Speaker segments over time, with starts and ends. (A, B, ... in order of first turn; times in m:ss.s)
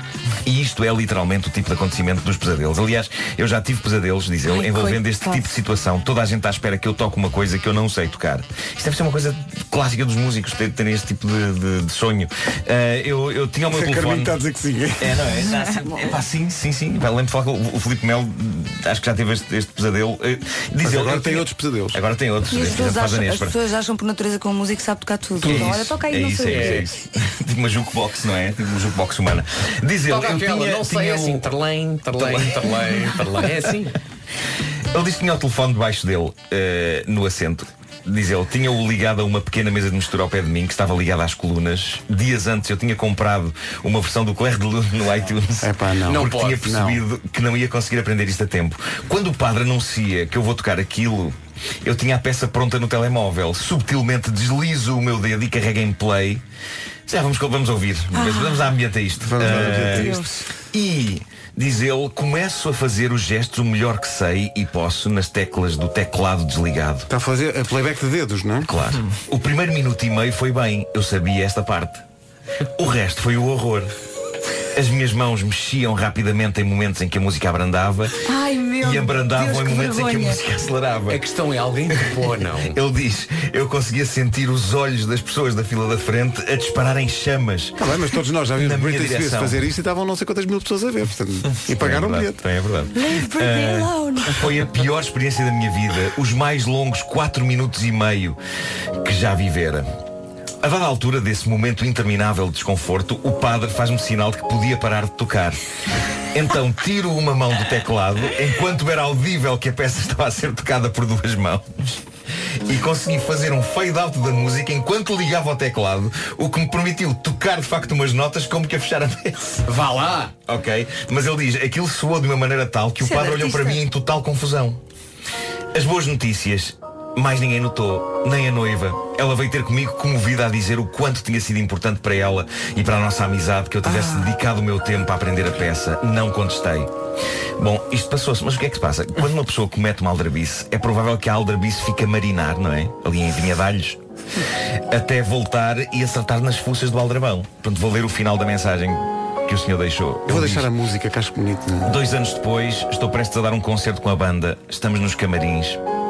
0:00.4-0:14.4 A
0:04.6-0:05.4 B
0:13.7-0:15.3 C
0:15.0-0:23.6 A
0:15.7-0:16.1 B
0:20.8-0:22.0 C
0:22.5-0:26.8 B
0:25.4-0:31.6 A
0:26.4-0:26.9 D
0:30.1-0:34.0 D
0:32.1-0:33.6 A
0:34.9-0:56.4 A
0:45.6-0:47.0 C
0:46.1-0:46.6 D
0:57.1-1:07.1 A
0:58.2-0:58.5 E
0:58.2-0:58.5 B
0:59.2-1:00.4 C
0:59.9-1:00.3 E
1:07.1-1:08.7 C
1:08.7-1:12.0 A
1:12.8-1:13.9 A
1:14.8-1:18.2 A
1:18.2-1:20.4 E
1:18.8-1:21.2 A
1:21.1-1:22.8 D
1:21.9-1:27.8 A
1:27.8-1:32.4 C
1:28.6-1:29.6 A
1:31.7-1:38.4 A
1:32.9-1:34.5 B
1:39.0-1:39.9 A
1:40.6-1:45.6 A
1:46.3-1:52.0 A
1:52.6-1:59.6 A
1:59.7-2:00.3 D
2:00.5-2:04.8 A
2:03.0-2:03.8 B
2:05.7-2:16.9 A
2:13.9-2:14.2 B
2:17.6-2:24.0 A
2:24.9-2:30.7 A
2:30.3-2:32.0 C
2:31.8-2:35.8 A